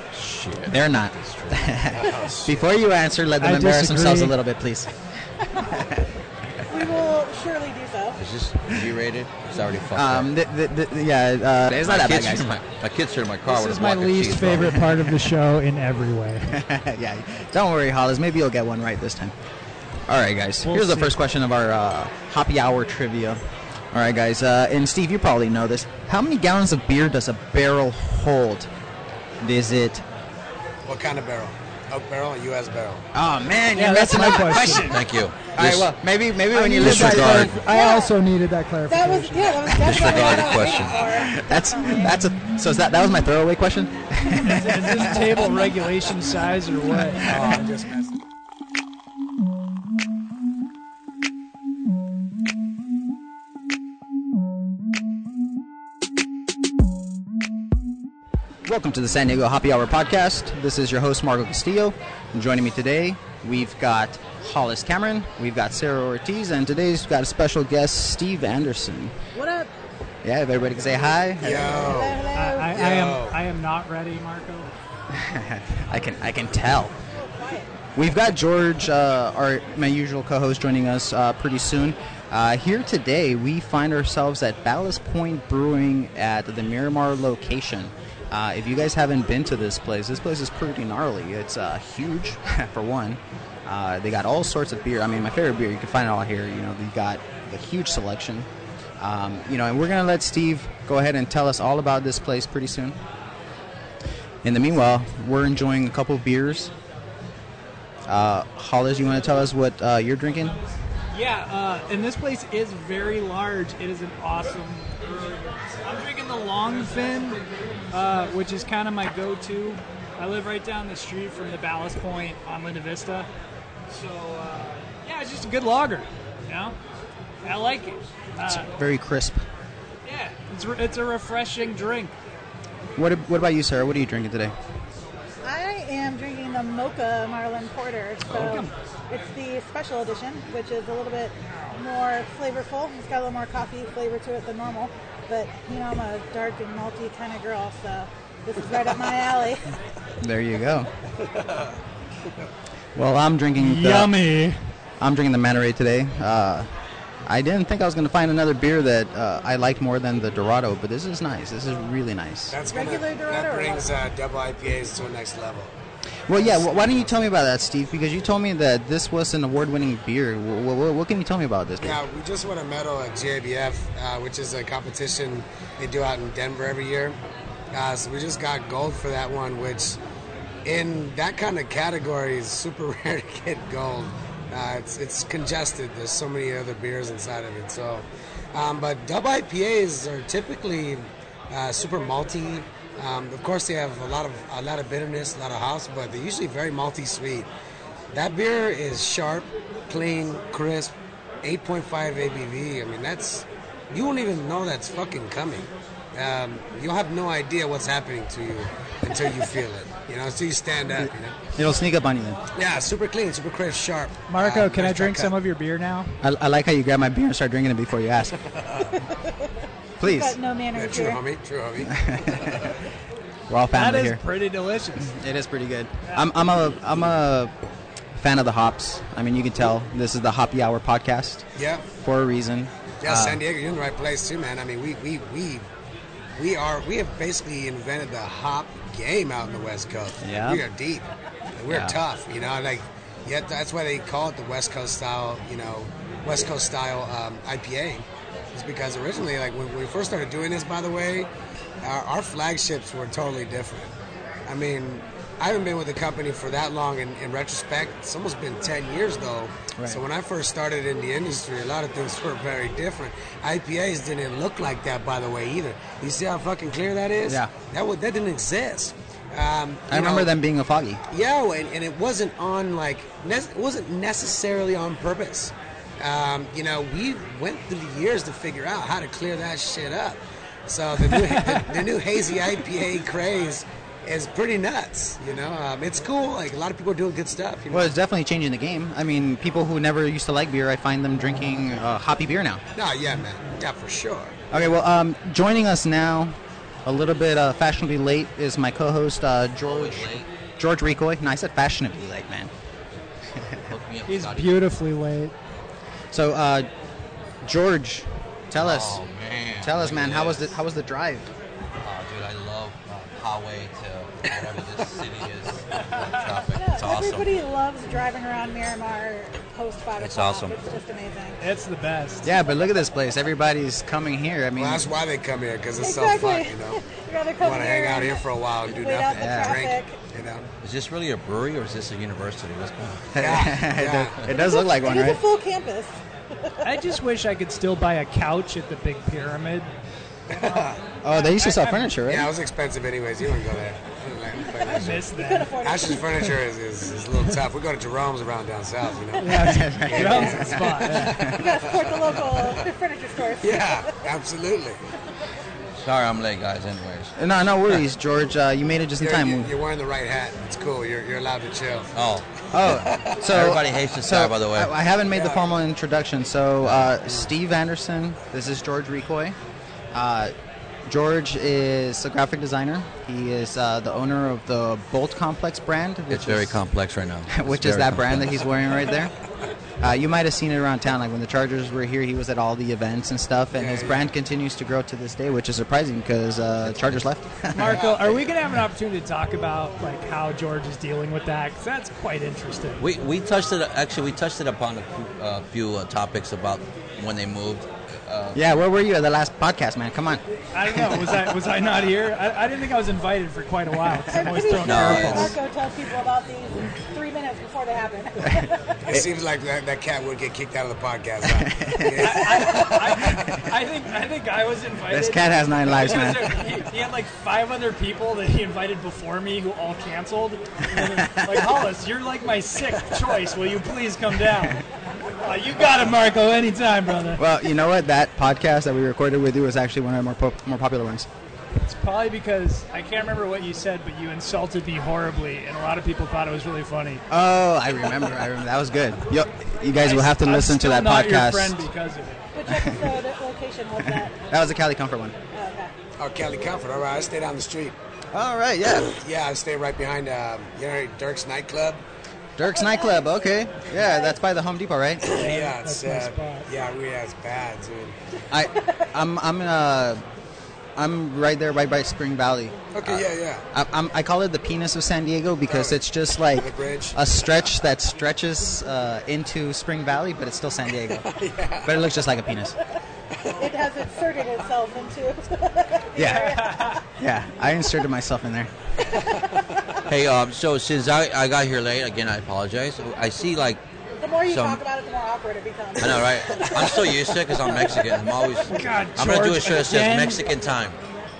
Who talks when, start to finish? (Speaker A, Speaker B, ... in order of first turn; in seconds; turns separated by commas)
Speaker A: 0.1-1.6, Speaker B: 0.6-4.9, Speaker C: 1.9-2.7, Speaker D: 3.4-4.4, Speaker E: 6.7-8.2, Speaker A: 8.2-10.3, Speaker B: 9.9-12.5, Speaker A: 11.8-14.8, Speaker D: 13.5-16.6, Speaker B: 16.5-19.3, Speaker B: 20.1-28.7, Speaker D: 20.6-21.1, Speaker B: 29.4-30.1, Speaker C: 30.9-33.0, Speaker B: 33.1-35.0, Speaker D: 33.8-35.1, Speaker A: 34.8-35.9, Speaker B: 35.5-37.5, Speaker D: 36.5-40.6, Speaker A: 36.8-37.6, Speaker E: 37.7-38.1, Speaker E: 38.9-42.2, Speaker A: 39.7-41.0, Speaker C: 40.7-41.0, Speaker B: 41.1-45.7, Speaker D: 44.4-47.4, Speaker B: 47.0-47.6, Speaker C: 47.2-48.2, Speaker B: 58.7-69.2, Speaker E: 69.3-69.7, Speaker B: 70.2-71.9, Speaker C: 71.4-72.2, Speaker E: 71.7-72.8, Speaker D: 72.3-74.7, Speaker C: 72.7-73.4, Speaker B: 75.1-76.9, Speaker E: 77.1-77.7, Speaker B: 78.0-98.5, Speaker B: 99.0-103.0, Speaker B: 104.4-106.7, Speaker B: 108.1-110.6, Speaker D: 111.1-115.1, Speaker D: 115.8-117.4, Speaker D: 117.9-123.3, Speaker D: 123.9-126.8, Speaker D: 127.4-128.7, Speaker B: 128.4-129.4, Speaker D: 130.1-132.2, Speaker B: 133.0-134.5, Speaker E: 135.4-149.8, Speaker D: 138.3-138.7, Speaker B: 150.2-150.9, Speaker B: 152.9-154.2, Speaker D: 153.6-154.6, Speaker B: 155.0-156.7, Speaker B: 157.3-162.6, Speaker C: 162.5-165.7, Speaker E: 162.7-163.9, Speaker B: 166.3-172.0, Speaker C: 166.3-167.1, Speaker C: 171.8-177.2, Speaker C: 177.7-180.0, Speaker C: 180.7-197.5, Speaker C: 198.1-211.4, Speaker B: 211.0-212.4, Speaker C: 212.6-215.3, Speaker D: 214.3-216.1, Speaker B: 216.2-218.4, Speaker C: 218.5-218.9, Speaker E: 219.0-221.2, Speaker B: 220.0-220.4, Speaker C: 220.8-222.7, Speaker B: 221.8-222.8, Speaker B: 223.5-224.2, Speaker D: 223.7-225.1, Speaker B: 225.0-227.5, Speaker D: 226.1-226.3, Speaker B: 228.2-231.4, Speaker C: 231.6-231.8, Speaker B: 232.0-233.4, Speaker C: 233.0-235.7, Speaker C: 236.3-251.3, Speaker B: 240.2-240.6, Speaker B: 241.7-242.0, Speaker C: 251.8-253.9, Speaker C: 254.5-270.3, Speaker B: 259.8-260.0, Speaker B: 267.3-267.5, Speaker B: 269.9-271.0, Speaker C: 271.1-287.9, Speaker D: 281.1-281.7, Speaker B: 287.7-292.6, Speaker C: 292.8-294.4, Speaker B: 294.5-302.5, Speaker A: 299.6-300.3, Speaker A: 303.7-304.7, Speaker D: 304.1-305.3, Speaker B: 306.1-306.7, Speaker B: 307.4-309.0, Speaker A: 308.6-310.5, Speaker B: 309.6-311.3, Speaker A: 311.8-317.3, Speaker E: 316.5-321.4, Speaker A: 320.0-320.6, Speaker D: 321.4-322.3, Speaker B: 322.2-324.9, Speaker C: 324.6-326.8, Speaker E: 325.8-330.0, Speaker C: 327.4-330.5, Speaker B: 329.1-329.6, Speaker A: 330.6-333.1, Speaker B: 333.1-335.2, Speaker C: 333.2-334.2, Speaker E: 334.3-336.9, Speaker D: 336.6-339.7, Speaker C: 340.3-340.8, Speaker B: 341.0-342.3, Speaker D: 341.1-342.0, Speaker C: 342.1-345.1, Speaker D: 344.6-345.6, Speaker E: 345.1-346.3, Speaker C: 345.6-352.6, Speaker D: 349.2-351.2, Speaker B: 349.4-351.4, Speaker E: 351.2-353.9, Speaker C: 353.4-354.8, Speaker A: 355.8-357.1, Speaker B: 357.2-359.5, Speaker C: 359.0-361.9, Speaker A: 361.9-364.7, Speaker B: 362.5-369.4, Speaker C: 362.8-363.2, Speaker C: 365.1-365.5, Speaker A: 366.6-366.9, Speaker B: 369.9-370.3, Speaker B: 370.9-376.6, Speaker A: 376.1-378.5, Speaker B: 377.3-379.1, Speaker B: 379.8-387.8, Speaker C: 383.6-384.0, Speaker A: 386.6-387.0, Speaker D: 387.5-392.8, Speaker C: 387.7-388.3, Speaker A: 392.8-398.4, Speaker B: 398.4-401.3, Speaker D: 400.5-405.4, Speaker E: 404.1-408.7, Speaker A: 404.6-405.4, Speaker C: 408.9-413.2, Speaker B: 411.4-413.4, Speaker D: 412.0-424.6, Speaker B: 414.9-416.3, Speaker B: 420.7-421.6, Speaker D: 425.2-427.2, Speaker B: 427.2-431.1, Speaker D: 431.6-437.0, Speaker B: 437.1-441.6, Speaker D: 439.8-442.3, Speaker E: 442.3-444.1, Speaker B: 442.5-442.9, Speaker B: 443.9-445.2, Speaker E: 445.3-445.7, Speaker C: 446.0-447.8, Speaker B: 448.1-449.0, Speaker C: 448.8-451.8, Speaker B: 452.4-455.2, Speaker E: 452.5-454.2, Speaker C: 455.0-458.0, Speaker D: 455.1-456.5, Speaker B: 458.3-460.0, Speaker B: 460.8-471.1, Speaker C: 462.7-463.5, Speaker C: 465.5-467.0, Speaker C: 471.0-471.8, Speaker B: 471.6-472.6, Speaker E: 473.4-476.8, Speaker B: 476.0-476.4, Speaker D: 476.1-476.8, Speaker B: 477.0-478.5, Speaker E: 479.2-479.8, Speaker A: 479.9-483.6, Speaker E: 484.0-488.4, Speaker A: 484.2-484.6, Speaker A: 485.8-490.8, Speaker D: 488.5-490.2